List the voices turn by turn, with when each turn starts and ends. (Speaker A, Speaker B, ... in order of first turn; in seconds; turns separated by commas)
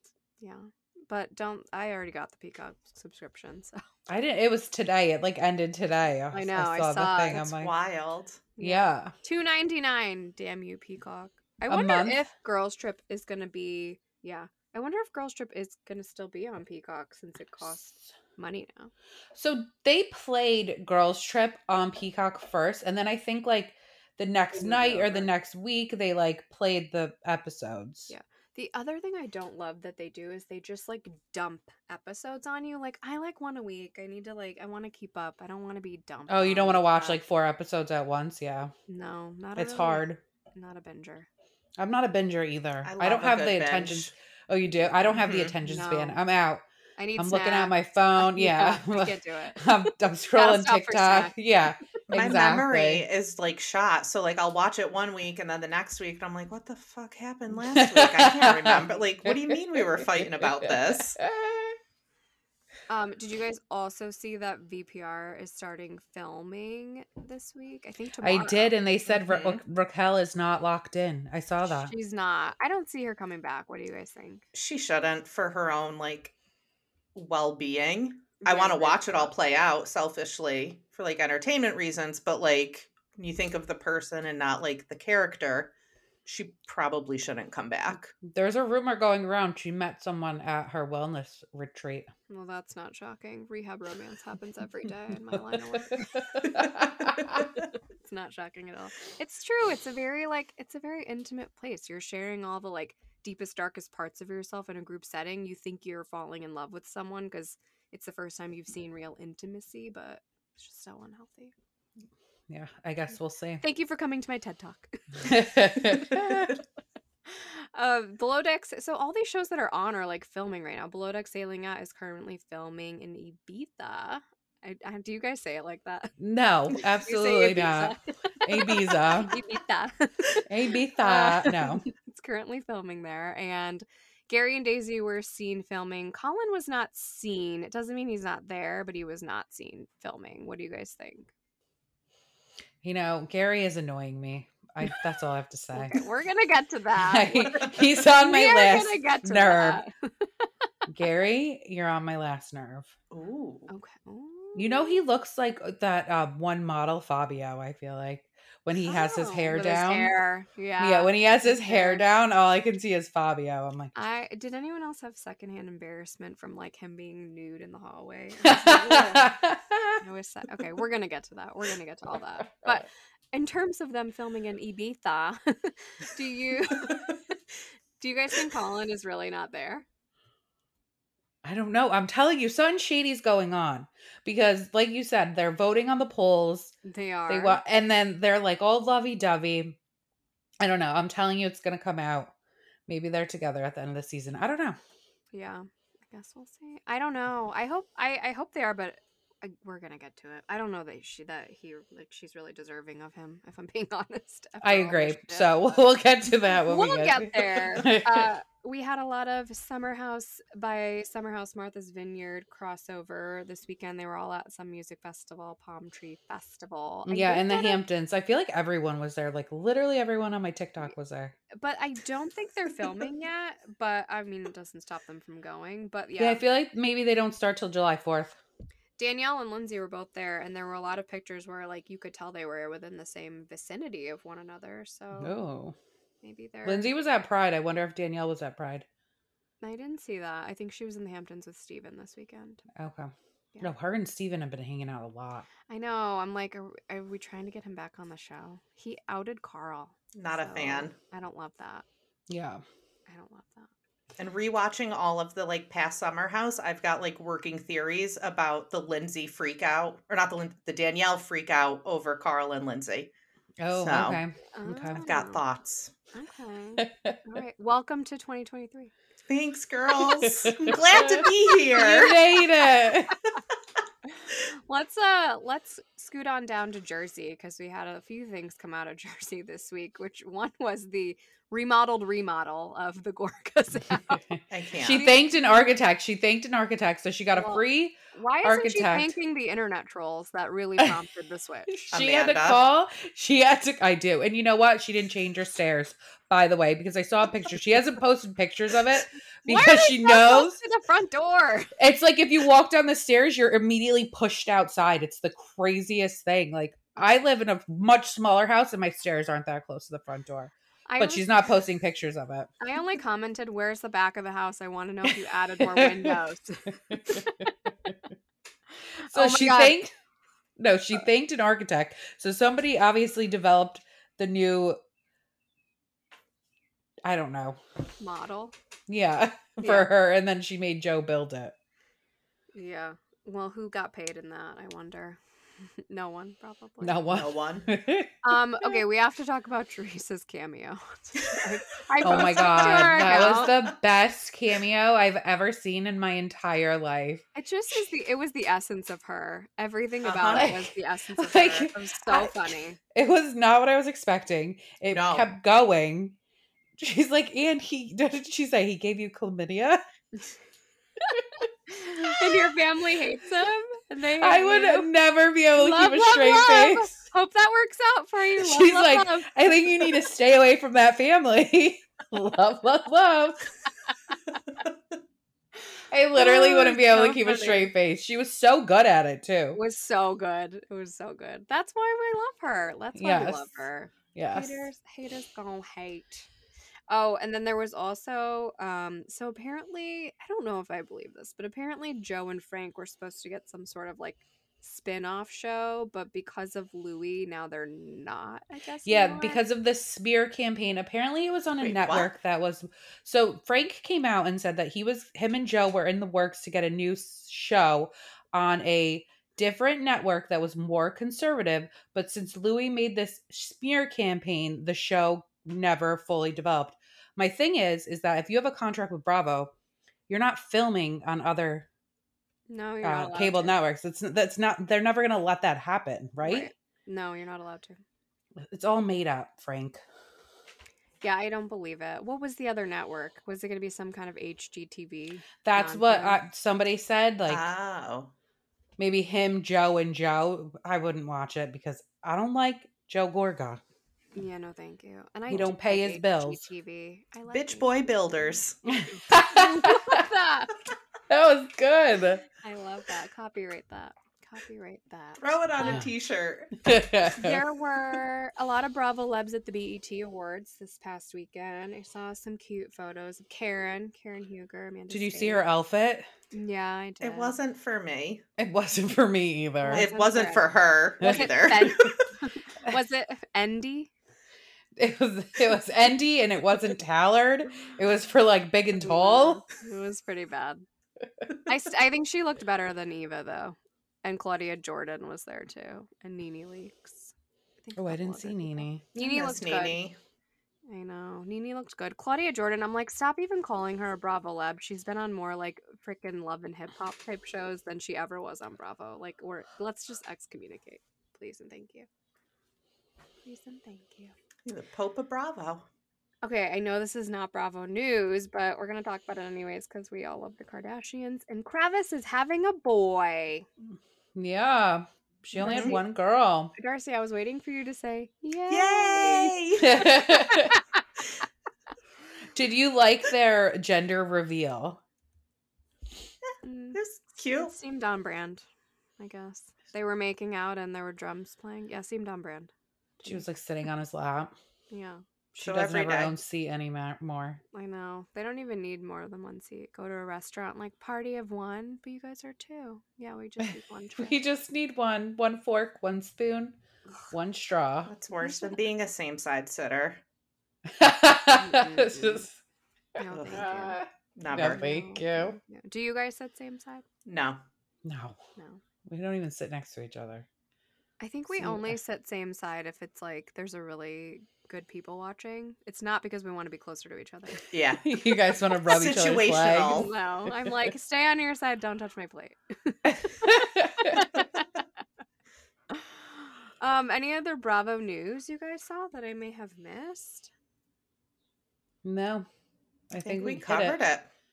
Speaker A: 0.4-3.8, Speaker B: 4.1-7.7, Speaker A: 6.3-7.5, Speaker C: 7.3-8.5, Speaker A: 8.6-18.9, Speaker B: 8.6-9.1, Speaker B: 11.7-12.2, Speaker B: 19.3-28.1, Speaker A: 24.5-25.3, Speaker A: 28.1-37.2, Speaker B: 36.3-38.7, Speaker A: 38.9-41.3, Speaker B: 39.6-40.2, Speaker B: 41.8-46.6, Speaker C: 42.8-44.1, Speaker A: 45.0-46.2, Speaker C: 45.2-45.6, Speaker A: 47.0-51.4, Speaker B: 47.2-53.0, Speaker C: 52.1-61.2, Speaker B: 57.6-61.8, Speaker A: 62.9-68.8, Speaker B: 68.2-71.9, Speaker C: 69.1-69.6, Speaker A: 71.8-74.4, Speaker C: 74.5-76.3, Speaker C: 77.2-85.7, Speaker A: 78.4-79.3, Speaker C: 86.3-88.2, Speaker B: 88.2-92.1, Speaker A: 92.3-96.7, Speaker B: 95.3-97.5, Speaker A: 98.0-111.5, Speaker B: 112.5-113.6, Speaker A: 113.6-116.2, Speaker B: 115.2-116.6, Speaker A: 117.3-126.1, Speaker B: 126.2-129.4, Speaker A: 126.8-130.4, Speaker B: 130.4-131.8, Speaker A: 131.0-141.3, Speaker B: 142.8-146.0, Speaker A: 145.7-150.5, Speaker B: 147.0-149.8, Speaker B: 150.9-152.9, Speaker C: 153.1-153.7, Speaker A: 153.7-155.0, Speaker B: 154.6-160.1, Speaker A: 158.8-162.1, Speaker B: 160.8-163.9, Speaker A: 163.9-169.4, Speaker B: 168.4-170.0, Speaker A: 170.0-177.3, Speaker B: 172.4-172.9, Speaker A: 178.0-179.9, Speaker B: 181.4-186.8, Speaker A: 186.8-187.6, Speaker B: 187.3-189.8, Speaker B: 190.6-192.3, Speaker B: 192.9-194.8, Speaker A: 195.3-205.9, Speaker B: 204.6-208.3, Speaker A: 206.4-217.8, Speaker B: 217.1-221.4, Speaker A: 221.5-226.4, Speaker B: 226.2-228.4, Speaker A: 229.0-235.3, Speaker B: 235.2-235.8, Speaker A: 236.2-236.9, Speaker B: 236.7-238.9, Speaker A: 239.6-242.6, Speaker B: 242.8-245.5, Speaker A: 245.7-251.8, Speaker C: 250.1-250.9, Speaker B: 252.3-252.6, Speaker A: 253.1-253.7, Speaker C: 254.2-263.1, Speaker B: 263.6-265.0, Speaker C: 263.7-264.2, Speaker A: 264.5-265.4, Speaker C: 264.9-265.9, Speaker A: 266.1-268.9, Speaker B: 266.8-267.2, Speaker C: 269.3-272.2, Speaker A: 270.0-270.5, Speaker B: 270.0-273.2, Speaker A: 271.8-272.2, Speaker A: 274.5-285.2, Speaker B: 284.1-289.1, Speaker C: 284.5-285.1, Speaker A: 287.3-291.8, Speaker B: 291.7-300.6, Speaker C: 291.9-292.6, Speaker A: 299.4-301.7, Speaker B: 301.8-312.5, Speaker A: 310.9-311.4, Speaker A: 312.6-317.5, Speaker B: 315.1-316.2, Speaker B: 316.9-318.0, Speaker A: 319.0-319.8, Speaker B: 319.1-319.9, Speaker B: 320.6-324.8, Speaker B: 327.0-327.6, Speaker A: 328.0-328.5, Speaker B: 328.9-331.6, Speaker A: 329.6-329.9, Speaker A: 332.5-335.2, Speaker A: 335.9-337.1, Speaker B: 336.8-338.7, Speaker C: 337.1-337.7, Speaker A: 338.2-343.5, Speaker C: 342.0-343.7, Speaker B: 342.0-347.8, Speaker A: 347.4-352.8, Speaker C: 350.0-350.5, Speaker B: 350.2-356.2, Speaker C: 354.9-355.3, Speaker B: 356.8-359.8, Speaker A: 361.0-364.9, Speaker B: 364.2-366.9, Speaker A: 365.5-370.0, Speaker B: 368.4-373.5, Speaker B: 375.9-379.6, Speaker A: 376.1-377.7, Speaker A: 379.5-386.3, Speaker B: 382.9-383.5, Speaker B: 384.1-384.7, Speaker A: 386.9-399.4, Speaker B: 398.9-419.5, Speaker C: 401.6-402.1, Speaker B: 420.1-421.7, Speaker A: 422.5-423.6, Speaker B: 422.8-426.5, Speaker A: 426.2-427.8, Speaker B: 428.4-429.8, Speaker A: 431.0-436.2, Speaker B: 435.4-437.4, Speaker C: 437.3-438.1, Speaker B: 438.8-443.6, Speaker A: 444.1-448.4, Speaker B: 445.3-446.4, Speaker C: 447.3-448.6, Speaker B: 448.7-450.1, Speaker A: 448.9-450.5, Speaker B: 451.1-452.2, Speaker A: 452.4-455.8, Speaker C: 455.2-456.6, Speaker B: 455.6-455.9, Speaker B: 456.6-457.4, Speaker A: 457.1-465.4, Speaker B: 464.9-466.1, Speaker A: 466.3-467.4, Speaker C: 467.0-468.2, Speaker B: 468.4-469.9, Speaker A: 469.6-473.9, Speaker C: 469.7-472.1, Speaker B: 471.0-471.7, Speaker B: 474.8-479.4, Speaker A: 478.8-480.6, Speaker A: 481.5-489.8, Speaker B: 487.8-488.9, Speaker C: 489.0-490.0, Speaker A: 490.7-501.9, Speaker A: 503.2-504.1, Speaker C: 504.4-505.7, Speaker A: 506.2-513.5, Speaker B: 514.1-516.5, Speaker A: 515.4-515.9, Speaker C: 515.4-515.8, Speaker A: 516.6-520.8, Speaker C: 518.5-519.9, Speaker B: 519.6-520.6, Speaker B: 522.3-524.8, Speaker A: 526.4-526.8, Speaker C: 526.7-527.6, Speaker A: 527.3-528.4, Speaker A: 529.0-533.3, Speaker B: 533.0-534.3, Speaker A: 534.7-535.4, Speaker C: 535.4-536.1, Speaker B: 535.4-537.4, Speaker A: 537.5-544.2, Speaker B: 544.0-546.6, Speaker B: 547.1-547.9, Speaker C: 547.9-550.0, Speaker A: 548.2-548.6, Speaker B: 550.7-552.4, Speaker A: 551.3-552.3, Speaker A: 553.0-553.8, Speaker C: 553.1-553.5, Speaker B: 553.3-555.4, Speaker C: 554.2-554.7, Speaker A: 554.3-556.8, Speaker C: 557.0-557.4, Speaker B: 557.9-558.2, Speaker A: 558.4-558.6, Speaker B: 558.9-560.3, Speaker A: 561.0-567.5, Speaker B: 561.3-561.8, Speaker C: 567.5-567.9, Speaker B: 567.8-569.9, Speaker C: 568.6-569.9, Speaker A: 569.7-574.5, Speaker B: 570.4-570.7, Speaker B: 572.9-574.1, Speaker A: 575.7-580.3, Speaker B: 581.8-582.3, Speaker B: 582.9-583.8, Speaker C: 583.0-584.1